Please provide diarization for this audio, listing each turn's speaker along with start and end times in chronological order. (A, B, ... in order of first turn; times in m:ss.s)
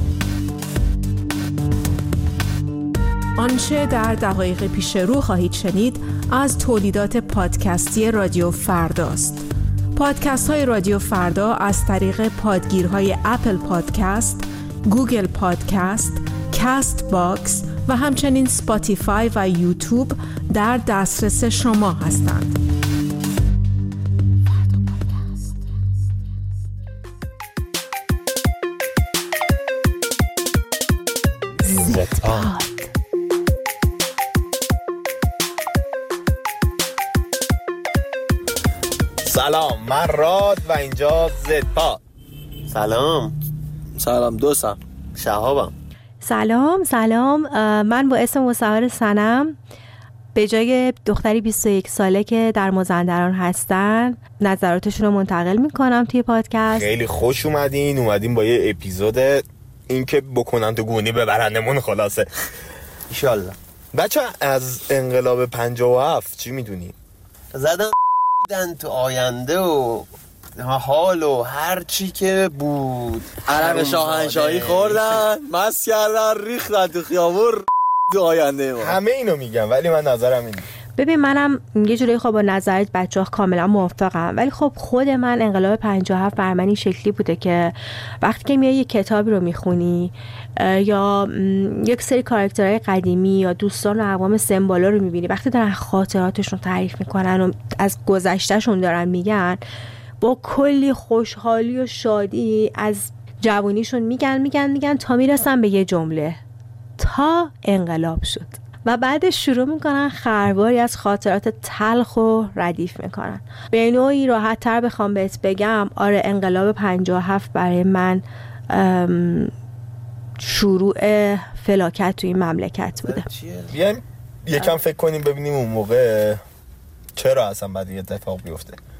0:03.4-0:09.4 A
0:10.0-0:22.6 A
0:31.6-0:32.7 A
0:31.8-0:32.5 B
0:39.2-0:42.0 C
0:42.7-0:43.4 B
0:44.0-0:44.8 D
0:45.2-0:45.7 B
0:46.2-0:49.6 E
0:50.4-0:56.9 E
0:56.7-1:02.3 C
1:03.1-1:03.6 B
1:03.9-1:07.0 C
1:07.5-1:15.3 B
1:13.5-1:19.0 D
1:18.8-1:20.7 C
1:21.0-1:39.6 E
1:40.2-1:46.4 E
1:47.0-1:59.5 E
2:00.4-2:03.2 E
2:03.0-2:03.8 B
2:03.7-2:06.4 C
2:07.2-2:08.8 C